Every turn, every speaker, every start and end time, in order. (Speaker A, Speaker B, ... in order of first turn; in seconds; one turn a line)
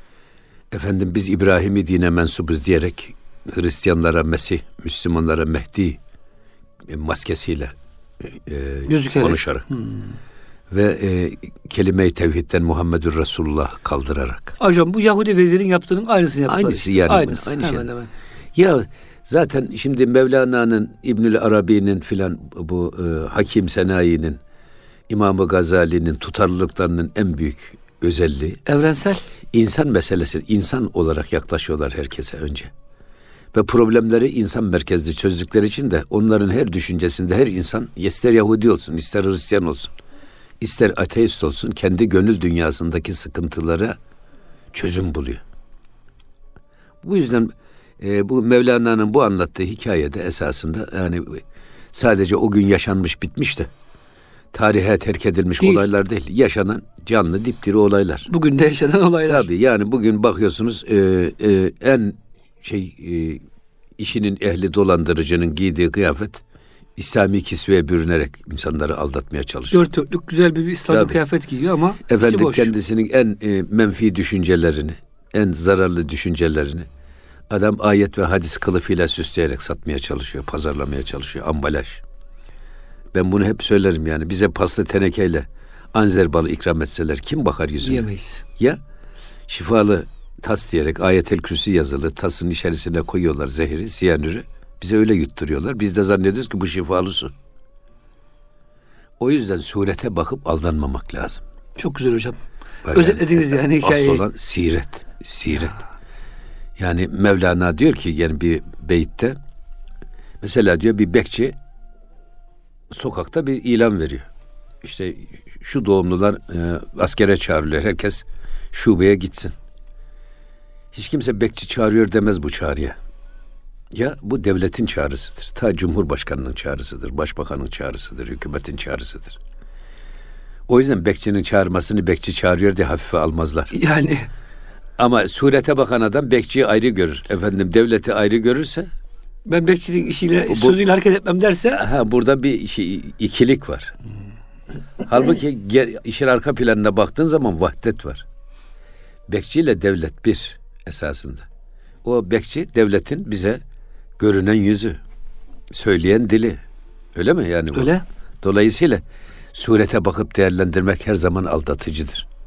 Speaker A: 0.7-6.0
Speaker A: 6.9-9.7
Speaker B: 8.9-10.0
Speaker A: 10.7-14.5
Speaker B: 14.6-18.1
Speaker A: 16.5-17.9
Speaker A: 18.6-24.4
Speaker A: 25.1-28.6
Speaker B: 28.7-29.2
Speaker A: 29.5-32.7
Speaker A: 33.5-39.9
Speaker A: 40.6-44.0
Speaker A: 44.7-45.4
Speaker A: 47.0-53.7
Speaker A: 54.5-58.3
Speaker B: 58.3-59.5
Speaker A: 59.3-63.4
Speaker A: 64.0-66.4
Speaker A: 67.0-69.9
Speaker B: 69.7-72.7
Speaker A: 70.9-71.2
Speaker A: 72.1-76.9
Speaker A: 77.5-82.0
Speaker A: 83.1-88.1
Speaker B: 87.8-88.4
Speaker A: 89.5-97.3
Speaker A: 99.2-101.4
Speaker B: 101.8-102.4
Speaker A: 102.8-105.8
Speaker B: 102.9-104.2
Speaker A: 106.8-109.4
Speaker A: 110.4-111.5
Speaker A: 112.9-114.3
Speaker A: 114.8-119.5
Speaker A: 120.9-123.0
Speaker A: 123.9-129.4
Speaker A: 130.7-133.7
Speaker B: 133.7-134.3
Speaker A: 135.0-138.9
Speaker B: 139.5-141.9
Speaker A: 140.5-140.8
Speaker A: 141.8-143.9
Speaker A: 145.0-148.3
Speaker A: 149.3-151.5
Speaker A: 152.0-153.6
Speaker A: 154.2-155.0
Speaker A: 155.7-156.6
Speaker A: 157.2-159.0
Speaker B: 157.8-158.0
Speaker A: 159.5-162.3